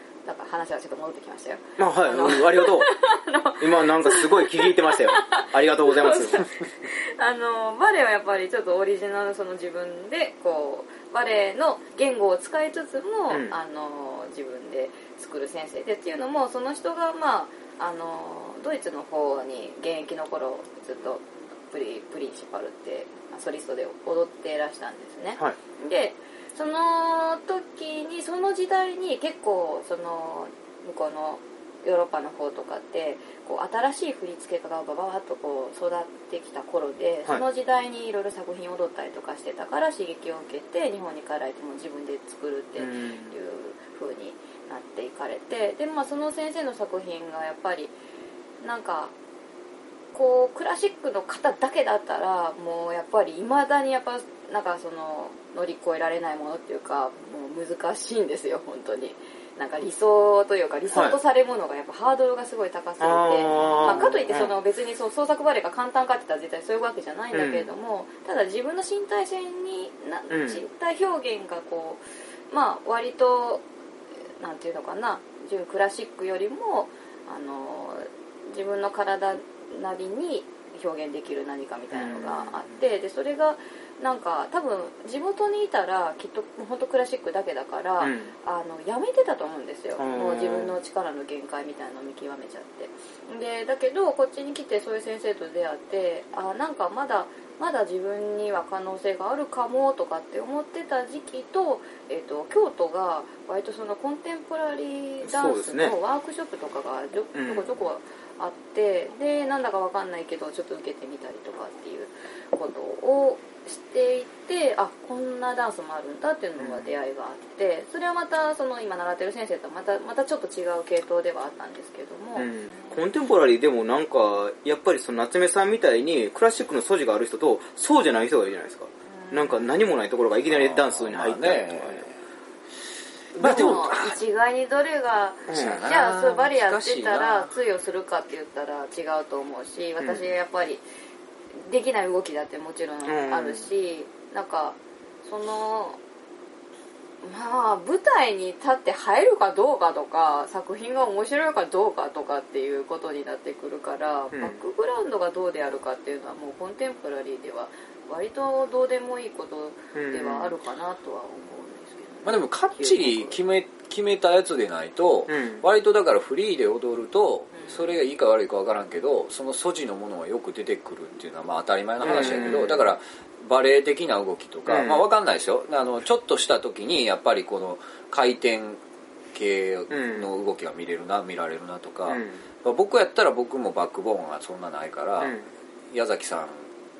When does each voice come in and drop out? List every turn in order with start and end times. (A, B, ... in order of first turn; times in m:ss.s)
0:00.2-0:48.0 A
0:01.8-0:02.9 B
0:03.6-0:06.4 B
0:13.3-0:13.6 B
0:42.8-0:43.4 B
0:48.6-0:49.1 A
0:50.1-1:13.6 A
1:00.9-1:01.2 B
1:03.0-1:04.6 B
1:07.3-1:07.7 B
1:10.3-1:10.6 B
1:14.4-2:02.5 A
1:21.9-1:22.8 B
1:28.0-1:28.3 B
1:30.0-1:30.7 B
1:45.2-1:45.9 B
1:47.3-1:47.7 B
1:56.6-1:57.0 B
2:02.4-2:12.1 B
2:09.2-2:09.7 A
2:10.5-2:12.1 C
2:13.4-2:13.8 B
2:13.4-2:14.2 C
2:13.4-2:20.8 A
2:15.5-2:15.8 B
2:15.5-2:17.5 C
2:21.6-2:26.0 A
2:23.0-2:23.7 B
2:27.2-2:43.4 A
2:34.3-2:34.6 B
2:39.9-2:40.5 B
2:42.2-2:58.8 C
2:45.3-2:45.6 B
2:47.5-2:47.8 A
2:52.0-2:52.9 B
2:54.7-2:55.0 B
2:59.3-3:05.4 C
2:59.9-3:00.3 B
3:02.1-3:02.4 B
3:05.2-3:05.5 B
3:05.9-3:06.7 C